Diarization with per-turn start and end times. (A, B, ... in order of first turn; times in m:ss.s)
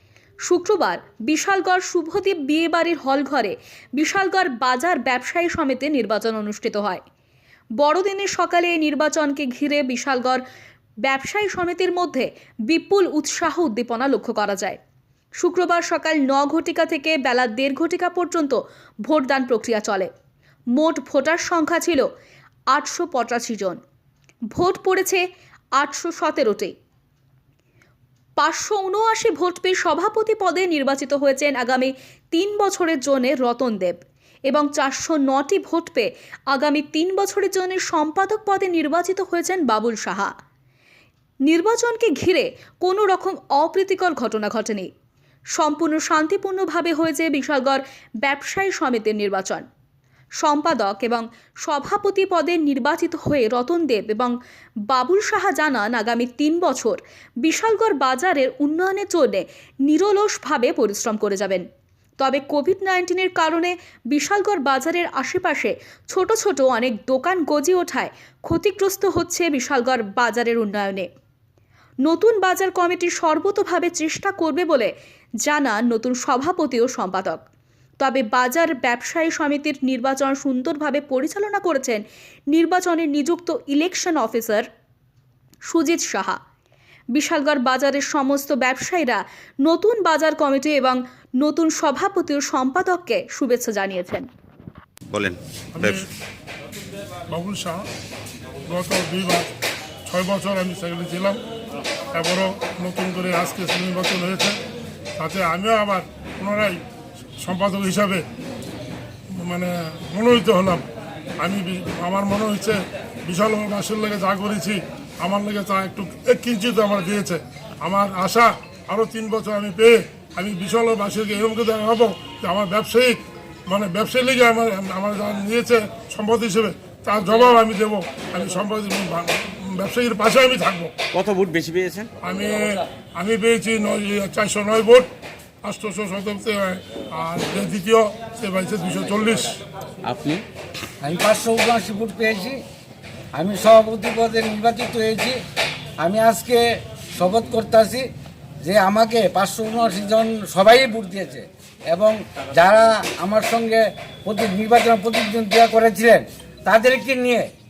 0:00.5-0:07.0 A
0:07.8-0:10.4 A
0:11.0-0:14.8 A
0:15.4-0:20.1 A
0:20.8-0:22.1 A
0:22.7-0:23.8 A
0:24.5-0:25.2 A
0:25.8-0:26.7 A
0:28.4-0:34.0 A
0:34.5-0:40.3 A
0:41.5-0:44.9 A
0:45.6-0:49.6 A
0:50.4-0:54.4 A
0:54.9-1:01.6 A
1:02.2-1:11.1 A
1:12.0-1:14.9 A
1:15.4-1:17.4 A
1:18.0-1:24.7 A
1:25.7-1:26.4 A
1:27.1-1:34.3 A
1:35.1-1:36.0 B
1:35.8-1:36.0 C
1:37.3-1:37.8 C
1:38.7-1:39.5 C
1:40.1-1:41.4 C
1:42.1-1:44.6 C
1:45.2-1:46.8 C
1:47.4-1:48.2 C
1:49.4-1:50.9 C
1:51.4-2:10.9 C
2:11.1-2:12.1 B
2:12.2-2:15.1 C
2:15.6-2:19.6 C
2:20.0-2:20.4 B
2:21.0-2:22.6 D
2:23.4-2:25.4 D
2:26.0-2:26.6 D
2:27.2-2:28.1 D
2:28.6-2:37.5 D